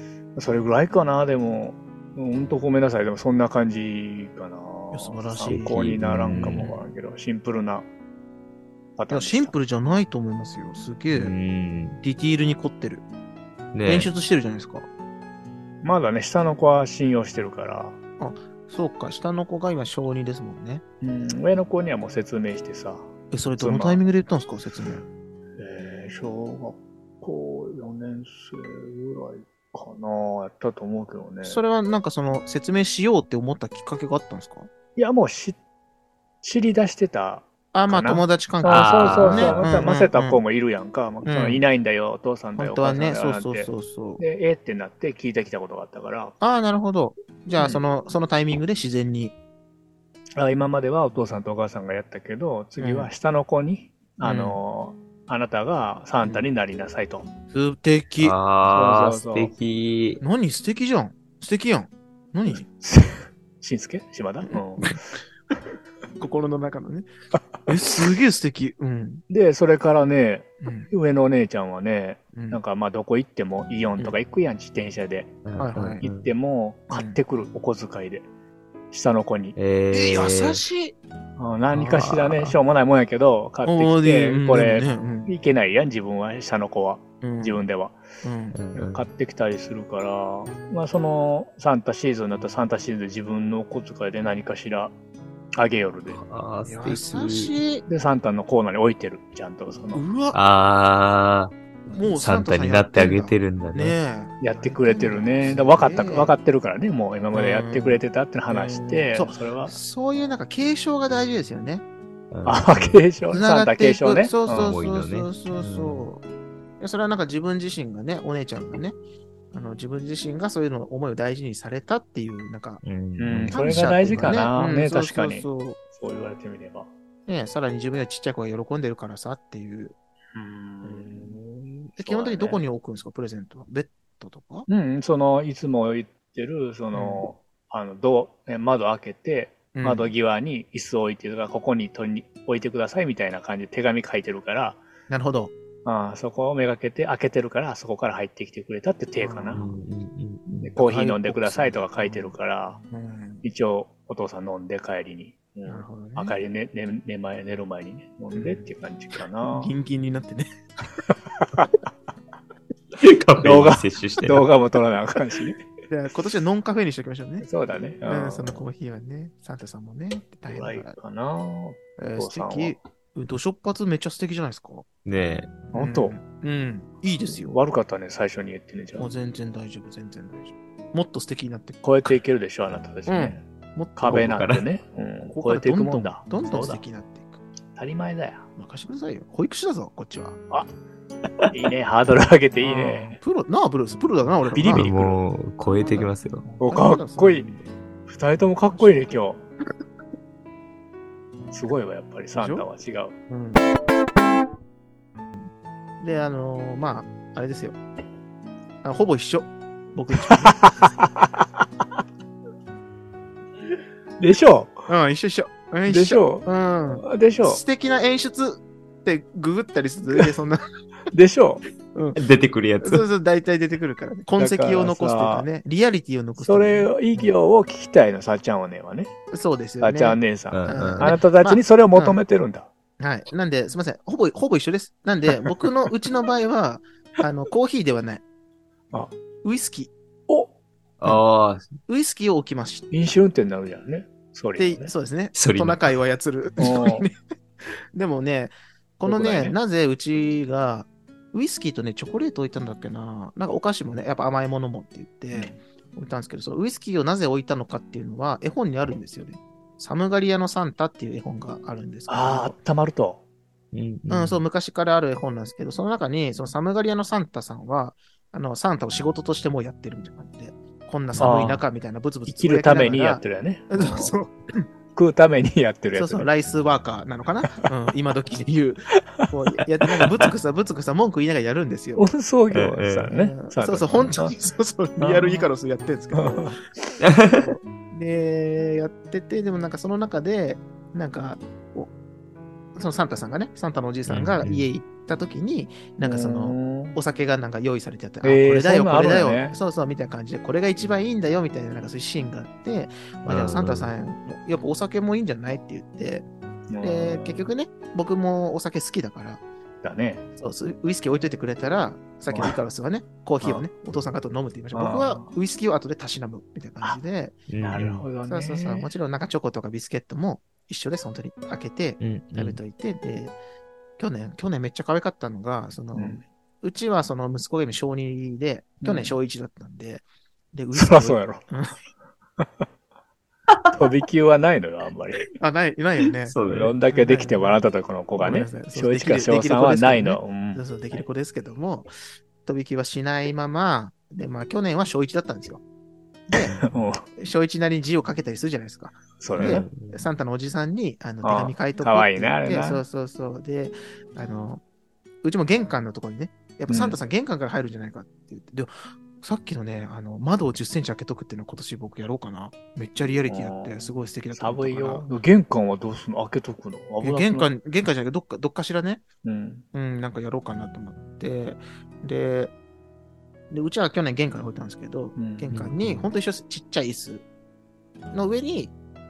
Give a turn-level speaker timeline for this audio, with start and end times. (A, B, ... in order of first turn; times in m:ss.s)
0:00.4-0:07.9 A
0:04.9-0:06.8 B
0:05.5-0:06.7 C
0:09.0-0:09.5 A
0:09.1-0:11.3 B
0:11.1-0:12.0 C
0:12.0-0:13.0 B
0:13.7-0:14.1 C
0:13.8-0:14.9 B
0:15.8-0:18.0 A
0:18.2-0:20.8 B
0:21.0-0:24.0 A
0:23.3-0:25.0 B
0:25.6-0:31.6 A
0:31.4-0:34.7 B
0:35.0-0:35.6 A
0:36.4-0:46.3 A
0:37.7-0:40.4 B
0:38.7-0:39.8 C
0:41.2-0:41.6 B
0:42.6-0:44.2 B
0:46.4-0:49.3 B
0:47.6-0:47.8 A
0:50.4-0:57.3 A
0:52.8-0:53.1 B
0:54.2-0:54.6 B
0:57.5-0:58.3 B
0:58.2-1:00.2 C
0:58.7-0:59.5 A
1:00.2-1:02.6 B
1:02.8-1:05.0 A
1:04.4-1:05.0 B
1:06.2-1:07.1 B
1:07.6-1:09.2 B
1:09.3-1:15.4 A
1:10.6-1:10.9 B
1:12.3-1:12.6 B
1:15.4-1:16.3 C
1:15.6-1:16.0 B
1:16.0-1:18.2 A
1:16.9-1:17.2 B
1:18.9-1:19.6 A
1:19.6-1:20.6 C
1:19.9-1:20.9 B
1:21.4-1:28.0 A
1:21.7-1:22.6 B
1:23.6-1:25.3 B
1:27.2-1:27.6 B
1:28.2-1:28.6 B
1:28.5-1:29.0 C
1:28.7-1:34.9 A
1:35.5-1:36.2 A
1:36.1-1:37.6 C
1:36.6-1:37.8 B
1:37.9-1:40.0 A
1:39.9-1:40.4 B
1:40.3-1:44.0 C
1:41.9-1:46.3 B
1:44.4-1:49.7 A
1:47.3-1:51.8 B
1:52.3-1:53.0 C
1:52.4-1:54.7 A
1:53.3-1:56.2 B
1:54.5-1:56.1 C
1:56.8-1:59.0 B
1:59.5-2:02.8 B
2:02.8-2:04.5 C
2:03.2-2:06.9 A
2:03.5-2:05.8 B
2:07.3-2:09.9 B
2:10.3-2:12.6 A
2:10.8-2:11.4 B
2:12.0-2:14.7 B
2:14.7-2:24.8 A
2:16.9-2:17.3 B
2:19.7-2:20.1 B
2:25.1-2:25.5 B
2:25.8-2:29.6 A
2:29.2-2:29.8 B
2:29.5-2:30.7 C
2:30.6-2:32.8 A
2:30.8-2:32.4 B
2:32.9-2:33.4 B
2:33.4-2:39.7 A
2:35.6-2:36.3 B
2:38.3-2:38.6 B
2:39.5-2:40.5 B
2:43.0-2:44.4 C
2:43.4-2:45.6 A
2:45.9-2:47.4 B
2:47.4-2:48.6 A
2:48.1-2:50.9 B
2:50.5-2:52.8 A
2:52.0-2:54.8 B
2:55.0-2:55.5 C
2:55.7-2:56.2 A
2:55.7-2:57.6 B
2:57.4-2:59.1 A
2:59.0-3:01.8 B
3:01.8-3:03.4 A
3:03.1-3:04.3 B
3:04.0-3:06.8 A
3:04.1-3:04.6 C
3:05.3-3:07.4 B
3:07.8-3:08.5 A
3:08.6-3:10.4 B
3:11.5-3:13.2 A
3:12.6-3:14.9 B
3:14.5-3:15.2 A
3:14.7-3:16.4 C
3:15.7-3:16.1 B
3:16.5-3:17.5 A
3:16.6-3:17.7 B
3:18.1-3:19.4 A
3:18.7-3:19.2 B
3:21.5-3:23.1 A
3:22.3-3:22.7 B
3:23.3-3:23.6 B
3:26.0-3:27.8 B
3:28.8-3:30.6 B
3:30.3-3:31.2 A
3:34.2-3:34.9 A
3:34.9-3:40.6 B
3:35.9-3:36.5 A
3:37.0-3:37.6 A
3:41.1-3:41.6 A
3:41.9-3:42.2 B
3:42.2-3:43.0 C
3:42.8-3:47.3 B
3:44.4-3:45.5 A
3:46.4-3:49.1 A
3:49.3-3:52.2 B
3:49.8-3:52.7 A
3:50.5-3:51.1 C
3:53.0-3:58.2 B
3:59.4-3:59.9 B
4:01.0-4:01.7 C
4:01.9-4:02.9 B
4:02.9-4:04.9 A
4:04.6-4:07.2 B
4:05.3-4:05.9 C
4:06.6-4:07.0 A
4:07.9-4:22.5 B
4:09.0-4:09.6 A
4:22.1-4:23.2 A
4:23.7-4:24.4 C
4:24.1-4:34.7 B
4:31.2-4:31.6 A
4:32.3-4:34.1 A
4:34.9-4:36.3 A
4:35.9-4:42.1 B
4:42.0-4:44.4 A
4:42.5-4:43.1 C
4:43.1-4:46.5 B
4:45.0-4:45.4 A
4:46.1-4:46.9 A
4:47.0-4:47.5 C
4:47.3-4:51.9 B
4:52.7-5:06.3 B
4:54.4-4:54.7 C
4:56.0-4:57.0 A
4:58.2-4:59.6 A
5:03.3-5:03.9 C
5:06.7-5:07.5 A
5:06.8-5:09.4 B
5:09.8-5:10.2 A
5:10.4-5:17.4 B
5:12.3-5:12.5 A
5:14.7-5:15.3 A
5:17.5-5:18.0 C
5:17.6-5:18.9 A
5:18.2-5:23.4 B
5:22.0-5:22.6 C
5:24.0-5:31.8 B
5:25.9-5:26.2 A
5:28.8-5:29.1 A
5:30.7-5:31.4 A
5:33.7-5:35.3 A
5:35.4-5:36.4 B
5:36.2-5:36.7 C
5:36.4-5:40.6 A
5:36.9-5:37.6 B
5:38.2-5:41.9 B
5:42.4-5:45.6 B
5:46.3-5:47.0 A
5:46.5-5:46.8 C
5:47.2-5:54.6 B
5:49.2-5:49.7 A
5:49.4-5:50.1 C
5:51.2-5:52.8 A
5:55.2-6:05.1 B
5:56.7-5:57.0 A
6:03.3-6:07.5 A
6:07.0-6:09.0 B
6:09.2-6:09.6 A
6:09.7-6:12.5 B
6:13.5-6:17.2 B
6:15.2-6:15.6 A
6:15.5-6:16.0 C
6:18.1-6:18.7 B